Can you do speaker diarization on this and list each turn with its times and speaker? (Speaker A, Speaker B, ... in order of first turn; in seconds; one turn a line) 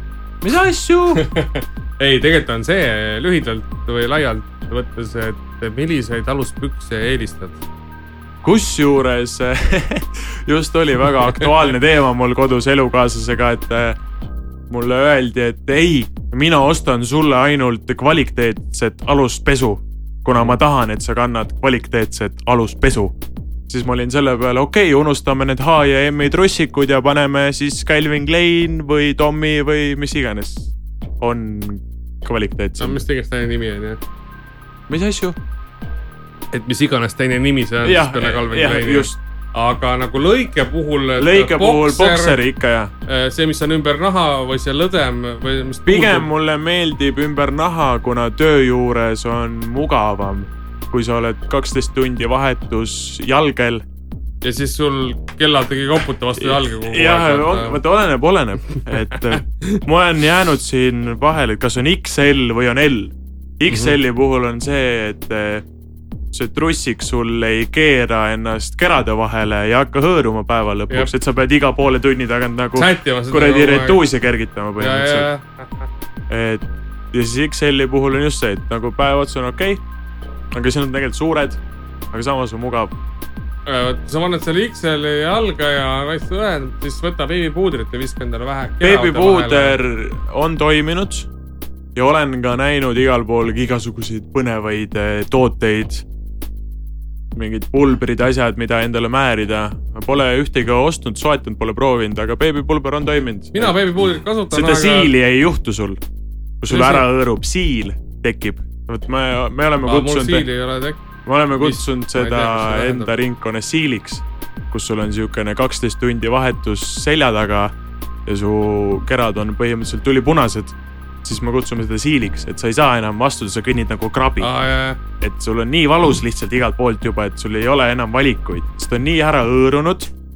Speaker A: 0.4-1.2
Speaker B: 1.1-7.6
Speaker A: 8.4-14.0
Speaker A: 14.7-23.1
Speaker B: 20.3-20.6
Speaker A: 23.7-33.0
Speaker B: 32.8-34.0
Speaker A: 34.9-35.4
Speaker B: 36.5-42.4
Speaker A: 37.9-39.2
Speaker A: 41.2-42.9
Speaker B: 43.1-46.3
Speaker A: 45.9-53.8
Speaker B: 54.4-57.8
Speaker A: 56.4-65.7
Speaker B: 59.3-59.8
Speaker B: 63.7-64.0
Speaker A: 66.3-75.3
Speaker B: 72.8-74.0
Speaker B: 74.8-75.9
Speaker A: 76.3-76.6
Speaker A: 77.1-79.8
Speaker A: 80.5-81.6
Speaker A: 82.1-82.9
Speaker B: 83.7-89.8
Speaker A: 88.8-91.3
Speaker A: 92.0-96.0
Speaker A: 97.3-103.8
Speaker B: 103.5-105.1
Speaker A: 104.5-106.0
Speaker A: 106.6-110.5
Speaker B: 106.7-107.0
Speaker B: 109.8-111.0
Speaker A: 111.3-117.7
Speaker B: 111.6-113.1
Speaker A: 118.3-124.5
Speaker B: 124.4-125.0
Speaker A: 125.2-130.1